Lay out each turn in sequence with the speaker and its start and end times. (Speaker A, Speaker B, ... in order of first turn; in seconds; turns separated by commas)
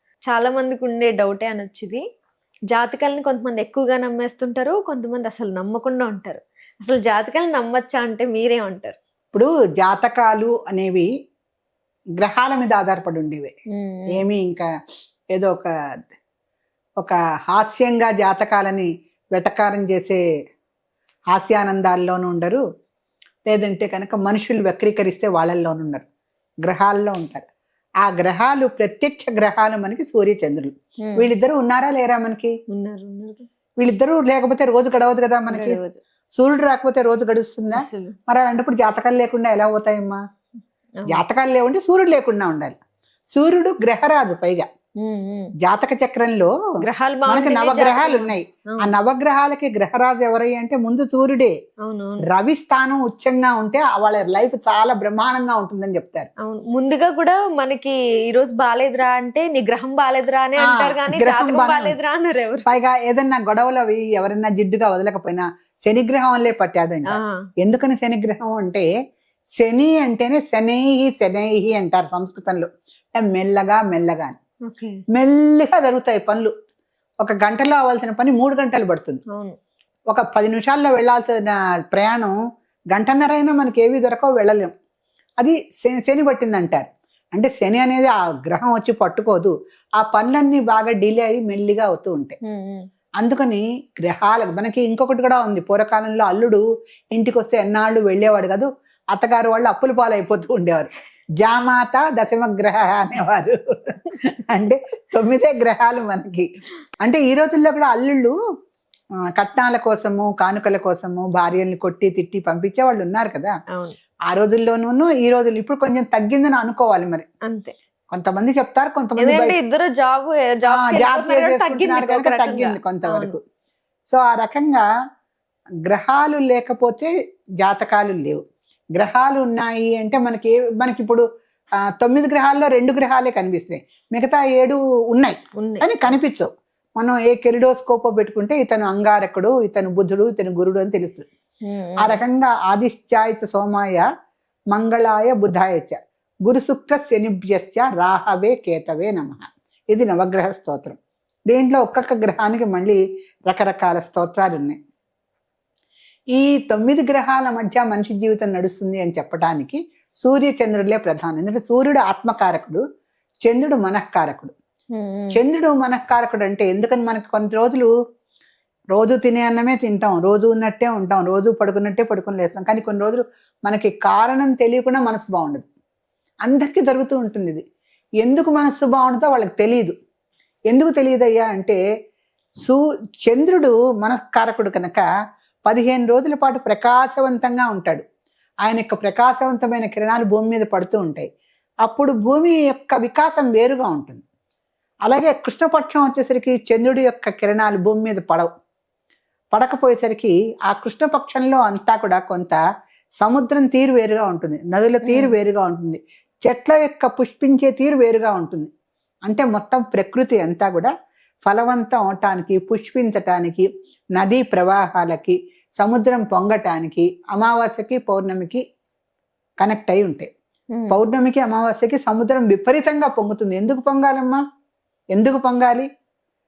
Speaker A: 0.3-2.0, Speaker A: 2.7-9.0, Speaker B: 9.3-11.1, Speaker B: 12.2-13.5, Speaker A: 13.7-14.2, Speaker B: 14.1-14.7, Speaker B: 15.3-15.7, Speaker B: 17.0-20.2, Speaker B: 21.3-22.6, Speaker B: 23.5-26.1, Speaker B: 26.6-27.4, Speaker B: 28.0-32.5, Speaker A: 31.0-31.3, Speaker A: 32.7-33.5, Speaker B: 33.8-35.8, Speaker A: 35.5-36.0, Speaker B: 36.4-40.2, Speaker A: 37.8-38.1, Speaker B: 41.1-42.8, Speaker B: 43.3-44.6, Speaker A: 45.0-45.5, Speaker B: 45.6-46.5, Speaker A: 46.8-48.9, Speaker B: 47.3-51.5, Speaker A: 51.8-52.3, Speaker B: 52.3-56.3, Speaker A: 56.4-62.7, Speaker B: 60.6-62.0, Speaker B: 62.6-68.9, Speaker A: 67.1-67.5, Speaker B: 69.6-74.4, Speaker A: 74.7-75.0, Speaker B: 75.1-76.5, Speaker B: 77.2-79.2, Speaker A: 79.3-79.6, Speaker B: 80.1-82.3, Speaker B: 82.9-84.7, Speaker B: 85.4-92.3, Speaker A: 92.4-92.9, Speaker B: 93.2-96.6, Speaker B: 97.1-106.5, Speaker B: 107.0-108.3, Speaker B: 109.3-113.5, Speaker B: 114.3-117.2, Speaker A: 117.5-117.7, Speaker B: 118.1-119.6, Speaker A: 119.2-123.3, Speaker B: 120.7-123.4, Speaker B: 124.1-124.8, Speaker B: 125.9-127.1, Speaker B: 127.6-128.4, Speaker B: 128.9-131.2, Speaker B: 132.0-141.2, Speaker A: 135.6-135.9, Speaker A: 141.7-142.2, Speaker B: 142.0-144.1, Speaker B: 144.7-151.0, Speaker B: 151.5-154.8, Speaker B: 156.3-162.8, Speaker B: 163.4-164.5, Speaker A: 164.9-165.4, Speaker B: 165.3-167.9, Speaker B: 168.9-175.7, Speaker B: 176.4-177.6, Speaker B: 178.2-179.9, Speaker B: 180.7-181.8, Speaker B: 182.6-185.0, Speaker B: 185.7-188.0, Speaker B: 188.6-191.3, Speaker B: 191.8-194.2, Speaker B: 195.1-198.5, Speaker B: 199.5-202.6, Speaker B: 203.2-208.7, Speaker A: 205.0-205.4, Speaker B: 209.2-210.9, Speaker B: 211.4-218.6, Speaker B: 219.6-220.3, Speaker A: 220.7-221.0, Speaker B: 220.9-224.4, Speaker B: 225.1-225.9